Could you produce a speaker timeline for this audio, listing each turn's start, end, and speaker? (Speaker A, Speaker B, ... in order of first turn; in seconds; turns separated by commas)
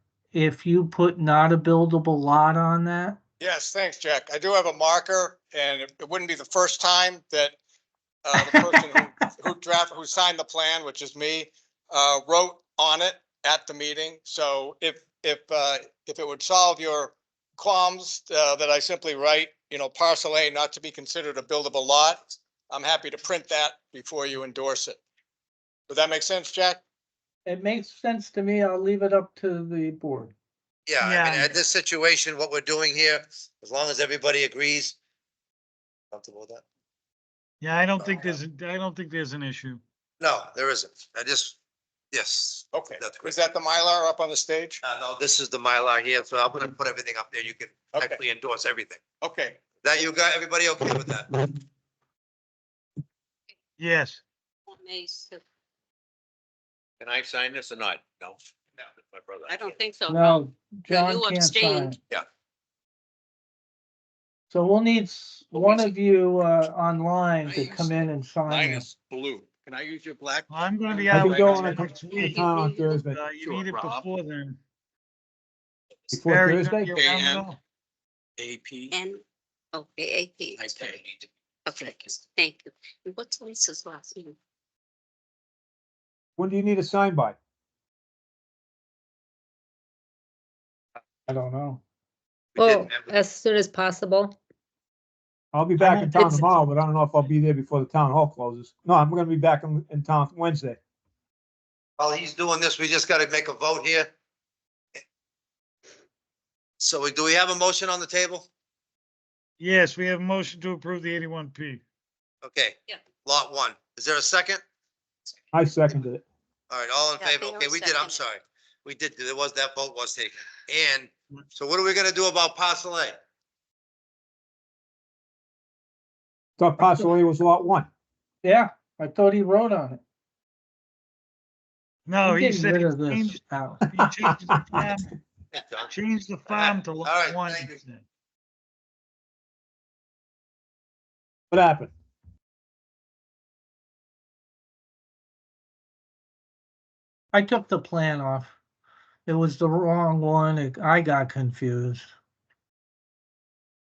Speaker A: 0.3-3.2, Speaker B: 3.4-7.6, Speaker B: 8.2-25.0, Speaker B: 25.9-26.8, Speaker A: 27.4-30.3, Speaker C: 30.9-34.9, Speaker D: 31.0-31.6, Speaker C: 36.1-36.6, Speaker D: 37.6-39.8, Speaker C: 40.2-41.5, Speaker C: 42.1-43.4, Speaker B: 42.7-44.8, Speaker C: 44.8-49.0, Speaker B: 47.9-48.2, Speaker B: 49.2-49.6, Speaker C: 49.8-51.3, Speaker D: 53.8-54.2, Speaker E: 54.7-55.4, Speaker F: 57.0-58.3, Speaker C: 57.2-58.1, Speaker F: 59.2-59.5, Speaker E: 59.5-61.9, Speaker A: 60.1-62.0, Speaker A: 64.5-68.9, Speaker F: 68.7-70.2, Speaker D: 70.5-74.6, Speaker G: 71.1-73.2, Speaker F: 71.1-71.6, Speaker E: 72.1-72.9, Speaker B: 73.4-74.0, Speaker G: 76.1-76.9, Speaker D: 76.2-77.6, Speaker B: 76.9-77.5, Speaker B: 78.4-78.9, Speaker E: 78.9-81.0, Speaker E: 81.7-84.3, Speaker G: 86.4-87.4, Speaker A: 91.3-91.8, Speaker C: 92.5-93.1, Speaker H: 92.5-94.4, Speaker G: 95.5-100.8, Speaker H: 95.8-96.6, Speaker C: 102.0-104.1, Speaker C: 106.8-108.5, Speaker D: 109.6-111.8, Speaker C: 112.4-114.6, Speaker G: 115.5-116.2, Speaker C: 116.7-123.2, Speaker E: 117.2-118.2, Speaker G: 126.6-127.9, Speaker A: 126.8-127.1, Speaker A: 128.4-130.0, Speaker D: 132.1-135.1, Speaker A: 132.2-133.8, Speaker C: 135.5-135.9, Speaker D: 135.9-138.0, Speaker C: 136.5-137.7, Speaker G: 141.5-141.9, Speaker A: 147.3-148.5, Speaker A: 149.2-152.1